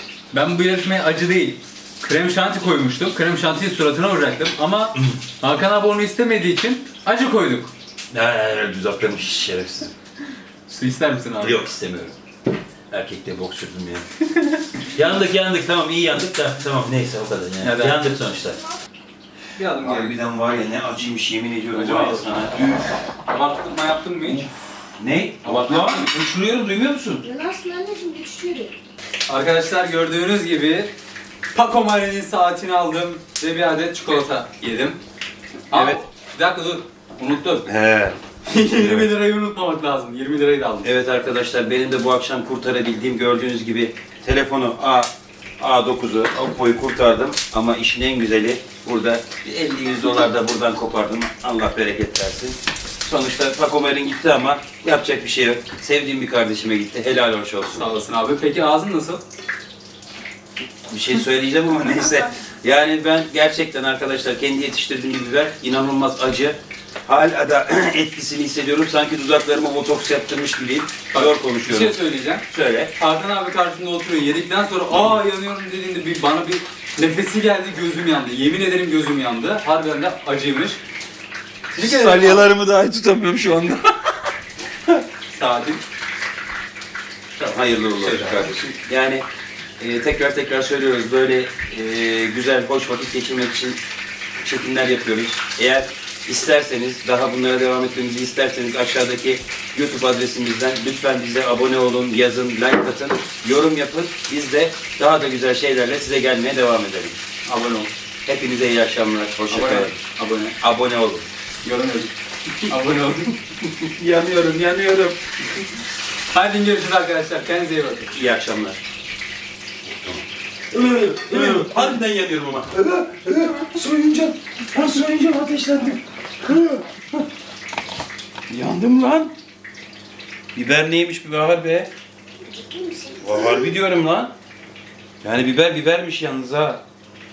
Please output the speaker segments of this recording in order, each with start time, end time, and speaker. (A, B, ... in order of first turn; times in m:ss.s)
0:00.3-0:07.7 A
0:04.9-0:05.2 B
0:08.1-0:09.9 B
0:10.7-0:11.6 A
0:11.4-0:12.2 B
0:12.9-0:14.0 B
0:14.9-0:18.7 B
0:17.6-0:18.1 A
0:19.5-0:20.2 A
0:19.8-0:23.0 B
0:21.7-0:22.5 A
0:23.2-0:24.5 A
0:24.3-0:27.3 B
0:25.4-0:26.1 A
0:27.2-0:28.7 C
0:29.3-0:30.9 A
0:31.5-0:35.0 A
0:35.7-0:36.0 B
0:35.7-0:37.6 A
0:37.6-0:38.2 B
0:38.4-0:40.8 A
0:38.7-0:39.1 B
0:40.8-0:57.8 B
0:57.7-0:59.2 A
1:00.9-1:12.0 B
1:11.1-1:12.4 A
1:12.5-1:12.9 B
1:13.0-1:20.8 A
1:21.7-1:22.4 A
1:21.8-1:24.0 B
1:25.3-1:25.8 A
1:27.3-1:29.2 B
1:28.0-1:28.5 A
1:29.8-1:33.8 B
1:34.4-1:47.2 B
1:47.4-1:47.9 A
1:48.2-1:50.0 B
1:49.5-1:50.6 A
1:50.6-1:51.3 B
1:51.6-1:53.4 A
1:53.6-1:55.2 B
1:56.3-1:58.1 A
1:58.1-1:58.8 B
1:59.8-2:07.2 B
2:01.3-2:01.9 A
2:08.5-2:09.3 B
2:10.5-2:11.9 B
2:12.4-2:13.2 C
2:13.2-2:14.3 B
2:15.2-2:16.8 B